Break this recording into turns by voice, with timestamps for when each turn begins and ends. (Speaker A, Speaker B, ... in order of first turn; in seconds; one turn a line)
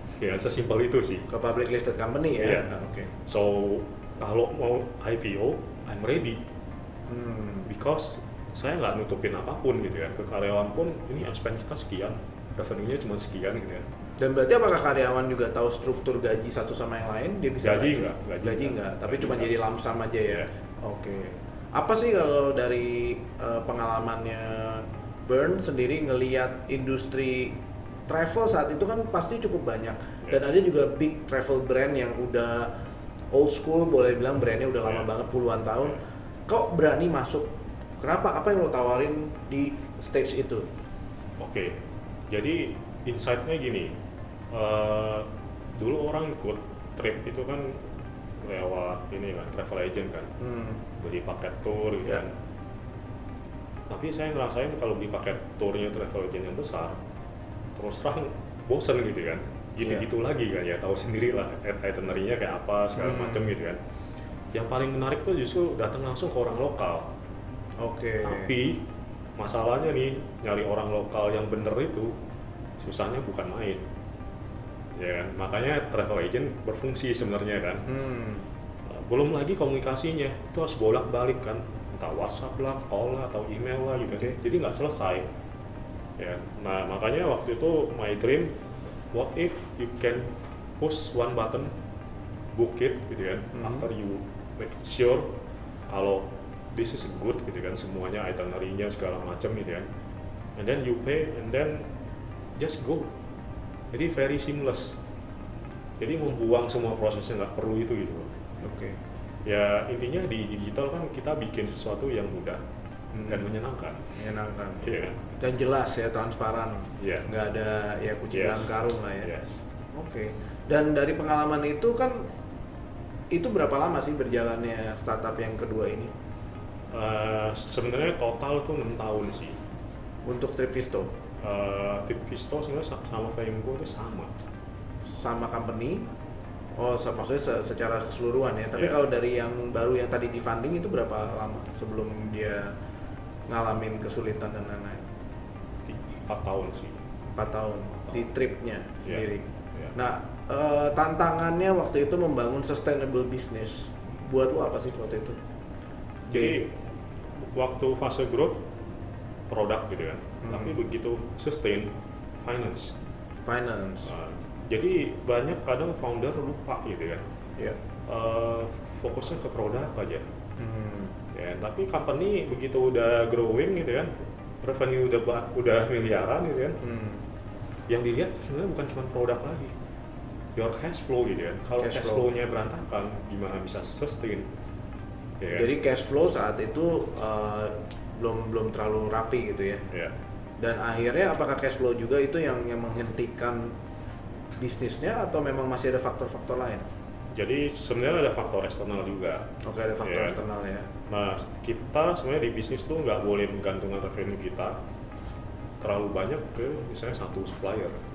Speaker A: 0.1-1.3
Speaker B: 1.3-3.1
Speaker A: 2.4-6.4
Speaker B: 7.1-7.7
Speaker A: 7.6-13.9
Speaker B: 14.2-32.7
Speaker A: 17.6-19.5
Speaker B: 33.3-40.7
Speaker A: 41.4-44.0
Speaker A: 44.5-47.8
Speaker A: 48.4-50.3
Speaker B: 50.4-50.8
Speaker A: 51.0-52.4
Speaker A: 53.9-57.0
Speaker A: 57.8-63.8
Speaker B: 59.8-60.1
Speaker B: 62.9-63.5
Speaker A: 64.5-67.1
Speaker B: 67.8-68.5
Speaker A: 68.2-68.9
Speaker A: 69.4-72.1
Speaker A: 72.8-73.8
Speaker A: 75.0-77.9
Speaker B: 77.9-78.5
Speaker A: 78.9-85.3
Speaker A: 86.2-88.5
Speaker A: 89.1-91.7
Speaker A: 92.5-95.3
Speaker B: 93.5-93.9
Speaker A: 95.9-99.9
Speaker A: 100.6-101.9
Speaker A: 102.5-103.1
Speaker A: 103.9-105.0
Speaker A: 106.0-108.4
Speaker B: 108.6-109.0
Speaker A: 109.4-112.6
Speaker B: 113.1-113.5
Speaker A: 113.3-114.1
Speaker B: 114.2-119.3
Speaker A: 114.8-115.3
Speaker A: 117.0-117.3
Speaker A: 118.3-119.6
Speaker B: 119.9-122.3
Speaker B: 123.3-126.1
Speaker A: 126.9-129.6
Speaker B: 130.2-131.1
Speaker A: 131.4-134.3
Speaker B: 135.2-136.1
Speaker B: 136.8-142.7
Speaker B: 143.5-145.1
Speaker A: 145.9-147.0
Speaker B: 147.3-155.4
Speaker A: 149.0-149.9
Speaker A: 156.3-156.8
Speaker B: 156.3-156.6
Speaker A: 157.5-158.6
Speaker A: 159.5-162.9
Speaker B: 160.4-160.8
Speaker B: 163.4-164.1
Speaker A: 164.1-167.2
Speaker A: 168.1-170.3
Speaker B: 170.6-171.1
Speaker A: 171.3-174.1
Speaker A: 174.6-176.8
Speaker B: 176.8-177.2
Speaker A: 177.9-179.7
Speaker A: 180.6-184.5
Speaker B: 181.8-182.3
Speaker A: 185.4-185.7
Speaker B: 185.5-189.8
Speaker A: 189.9-190.1
Speaker B: 190.6-193.8
Speaker B: 194.6-196.8
Speaker A: 197.3-199.5
Speaker B: 199.6-200.9
Speaker A: 200.0-200.4
Speaker A: 201.1-204.8
Speaker A: 205.8-208.0